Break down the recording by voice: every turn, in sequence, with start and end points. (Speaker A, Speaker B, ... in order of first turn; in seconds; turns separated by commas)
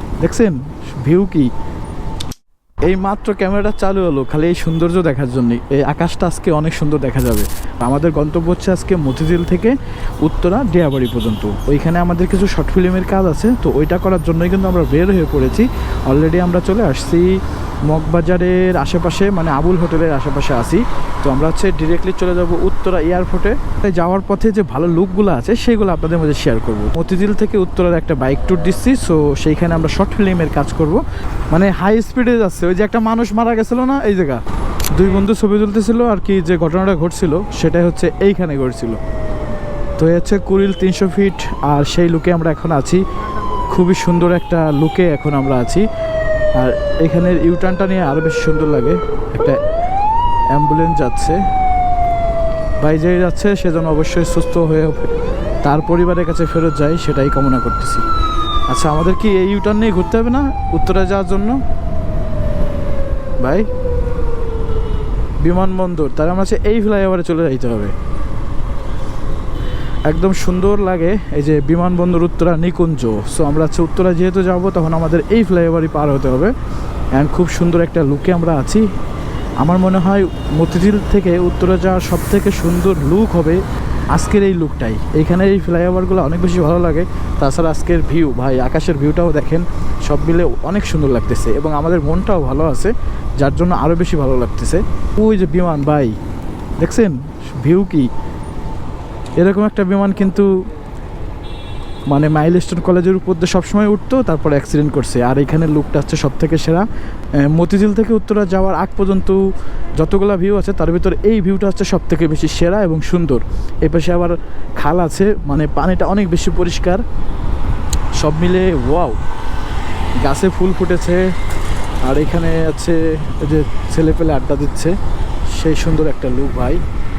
Speaker A: 0.2-1.5, Speaker A: 2.8-34.4, Speaker A: 34.9-39.0, Speaker A: 40.0-43.0, Speaker A: 43.7-45.9, Speaker A: 46.6-49.6, Speaker A: 50.5-51.4, Speaker A: 52.8-55.1, Speaker A: 55.6-58.0, Speaker A: 58.7-61.6, Speaker A: 63.4-63.7, Speaker A: 65.4-67.9, Speaker A: 70.1-76.5, Speaker A: 77.1-78.9, Speaker A: 79.6-96.1, Speaker A: 96.8-98.1, Speaker A: 99.4-100.5, Speaker A: 102.1-106.8, Speaker A: 107.4-109.4, Speaker A: 110.0-117.0, Speaker A: 118.2-119.2, Speaker A: 120.2-121.3, Speaker A: 122.0-125.0, Speaker A: 125.5-126.8